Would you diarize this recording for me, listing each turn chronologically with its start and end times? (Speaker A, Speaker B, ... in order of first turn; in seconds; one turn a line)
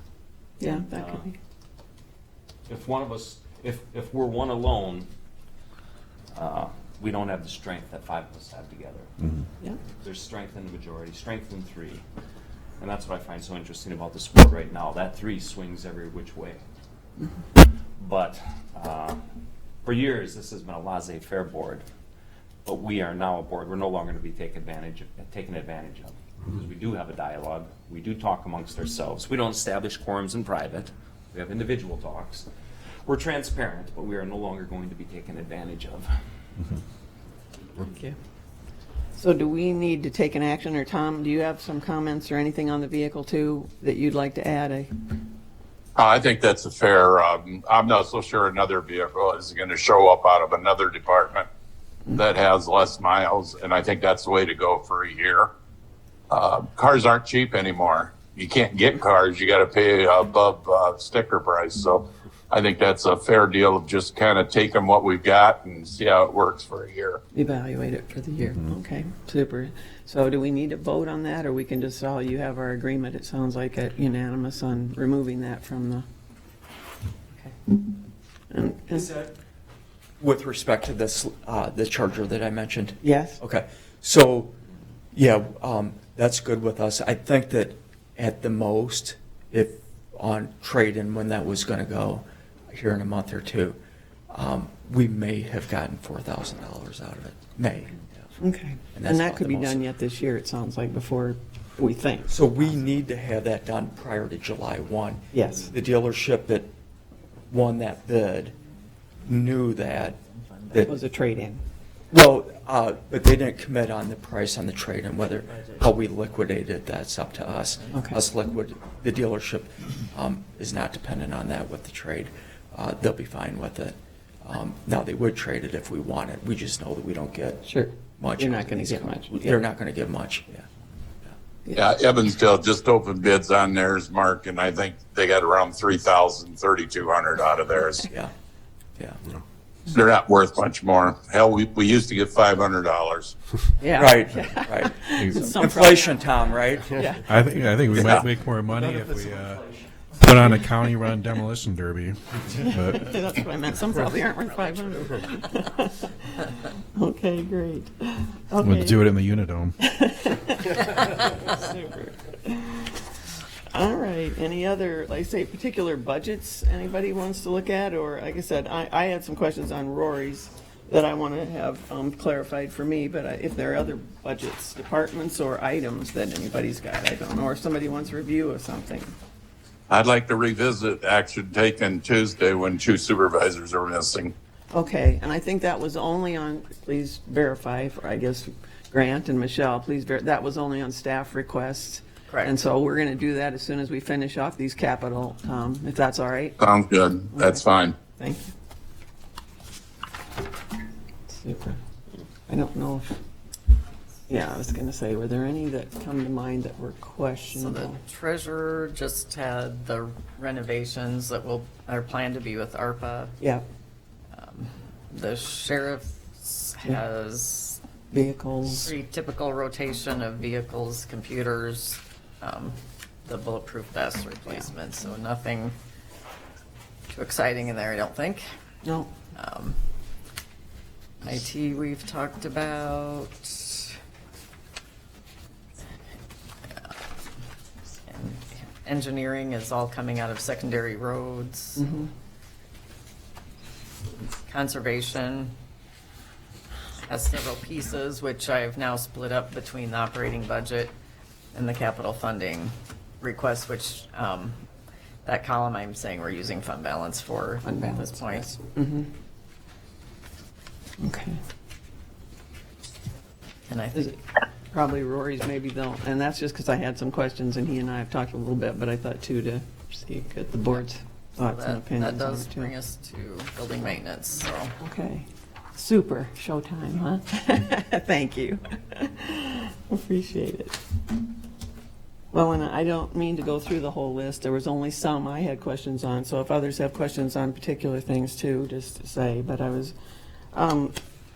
Speaker A: 0.6-1.4
Speaker B: 0.7-1.3
Speaker B: 2.7-5.1
Speaker B: 6.3-9.1
Speaker B: 10.0-12.0
Speaker B: 12.8-16.6
Speaker B: 18.0-19.2
Speaker B: 19.9-21.8
Speaker B: 22.6-32.5
Speaker B: 33.0-36.1
Speaker A: 37.8-38.1
Speaker A: 39.2-44.9
Speaker C: 46.0-51.4
Speaker C: 52.2-55.3
Speaker C: 56.3-62.0
Speaker C: 62.5-67.2
Speaker A: 67.3-76.1
Speaker A: 78.5-79.1
Speaker D: 78.9-79.3
Speaker D: 80.2-84.6
Speaker A: 83.0-83.4
Speaker D: 85.1-93.8
Speaker D: 94.3-98.3
Speaker A: 98.4-102.3
Speaker D: 98.9-99.8
Speaker D: 102.3-106.7
Speaker A: 105.3-105.6
Speaker D: 107.5-108.6
Speaker D: 109.2-111.0
Speaker A: 110.8-111.6
Speaker D: 112.1-130.7
Speaker A: 127.7-129.6
Speaker C: 134.4-135.8
Speaker C: 136.4-137.9
Speaker D: 138.1-138.3
Speaker C: 140.9-141.9
Speaker A: 143.8-146.2
Speaker D: 144.0-147.1
Speaker A: 146.9-147.3
Speaker E: 147.3-149.6
Speaker D: 147.9-148.3
Speaker E: 150.2-152.2
Speaker A: 152.6-156.3
Speaker A: 156.9-159.0
Speaker E: 158.6-159.7
Speaker A: 159.8-163.0
Speaker A: 163.7-179.1
Speaker C: 181.1-181.7
Speaker A: 184.7-196.6
Speaker F: 192.3-192.6
Speaker C: 196.6-197.9
Speaker A: 197.3-197.7
Speaker A: 198.2-198.5
Speaker A: 201.3-201.8
Speaker A: 202.5-203.2
Speaker A: 204.3-208.0
Speaker F: 207.6-213.4
Speaker F: 214.3-217.8
Speaker A: 218.1-218.9
Speaker F: 218.7-225.8
Speaker F: 227.1-228.4
Speaker A: 228.8-229.1
Speaker F: 229.3-229.8
Speaker F: 231.2-233.9
Speaker F: 238.1-241.9
Speaker A: 241.8-242.1
Speaker F: 244.5-245.5
Speaker F: 247.1-250.9
Speaker F: 251.5-254.6
Speaker F: 255.2-258.6
Speaker A: 257.6-259.1
Speaker A: 261.0-261.4
Speaker F: 263.7-264.2
Speaker A: 264.7-272.7
Speaker F: 271.4-274.7
Speaker A: 274.8-280.8
Speaker A: 282.3-289.9
Speaker A: 290.5-291.0